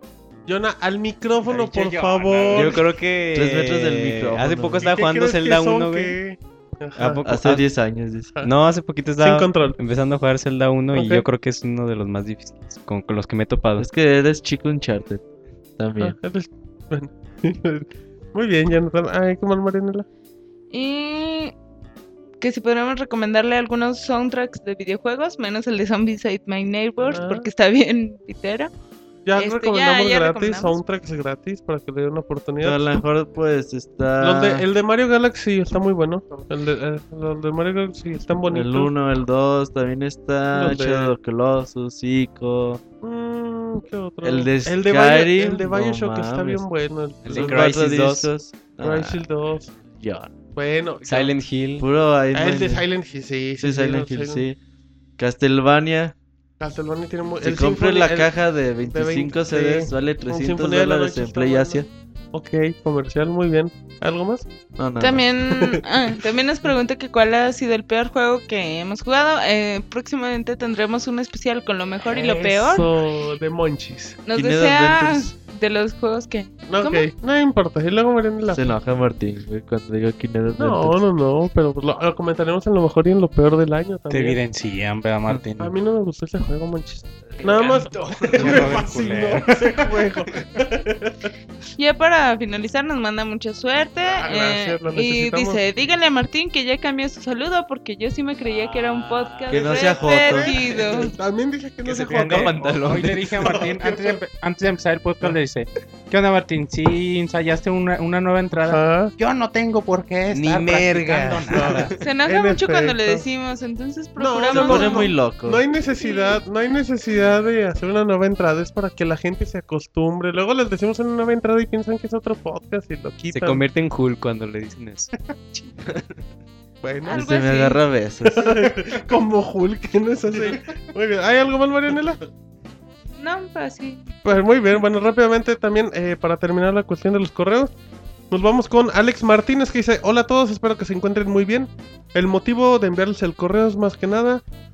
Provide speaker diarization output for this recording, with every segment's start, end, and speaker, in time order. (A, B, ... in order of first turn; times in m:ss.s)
0:00.4-0:02.9 A
0:01.4-0:02.8 B
0:02.5-0:06.2 C
0:03.3-0:04.9 D
0:04.8-0:07.5 A
0:07.0-0:07.6 C
0:07.2-0:08.3 D
0:08.4-0:13.8 C
0:09.2-0:09.8 A
0:10.9-0:11.2 A
0:13.8-0:15.2 D
0:15.8-0:16.2 D
0:16.0-0:20.0 A
0:20.7-0:21.5 E
0:22.4-0:28.7 E
0:27.1-0:27.5 A
0:29.2-0:33.0 A
0:29.4-0:30.8 E
0:32.6-0:34.6 D
0:34.2-0:38.9 A
0:38.5-0:42.8 D
0:40.5-0:41.1 A
0:43.0-0:47.7 A
0:44.2-0:46.6 D
0:47.2-0:48.3 C
0:47.2-0:49.2 D
0:48.8-0:49.7 A
0:49.9-0:50.4 D
0:50.5-0:51.3 A
0:51.0-0:51.8 C
0:51.8-0:52.9 D
0:52.3-0:54.4 A
0:53.6-0:54.6 D
0:55.2-0:56.1 D
0:56.6-0:58.3 A
0:57.4-1:01.9 D
0:58.8-1:04.4 A
1:04.8-1:05.2 D
1:05.0-1:12.9 E
1:05.5-1:05.8 A
1:12.1-1:14.2 A
1:14.2-1:17.1 E
1:14.3-1:15.3 D
1:16.7-1:18.7 A
1:18.5-1:21.0 D
1:20.6-1:24.4 A
1:24.1-1:25.7 B
1:25.6-1:31.3 A
1:27.3-1:27.8 D
1:27.5-1:28.2 C
1:28.3-1:29.9 B
1:31.8-1:41.1 E
1:34.0-1:35.6 A
1:38.4-1:39.8 C
1:39.5-1:40.6 D
1:39.8-1:44.2 A
1:41.8-1:43.3 C
1:42.8-1:51.9 B
1:48.6-1:49.1 A
1:50.3-1:51.9 C
1:51.6-1:53.2 A
1:52.0-1:55.1 E
1:54.2-2:03.6 A
1:54.5-1:55.6 D
1:56.0-1:56.4 E
2:03.2-2:05.1 C
2:06.8-2:07.2 A
2:07.1-2:07.8 E
2:07.1-2:08.7 D
2:08.2-2:12.2 A
2:13.2-2:14.1 E
2:14.2-2:17.7 A
2:18.3-2:24.4 A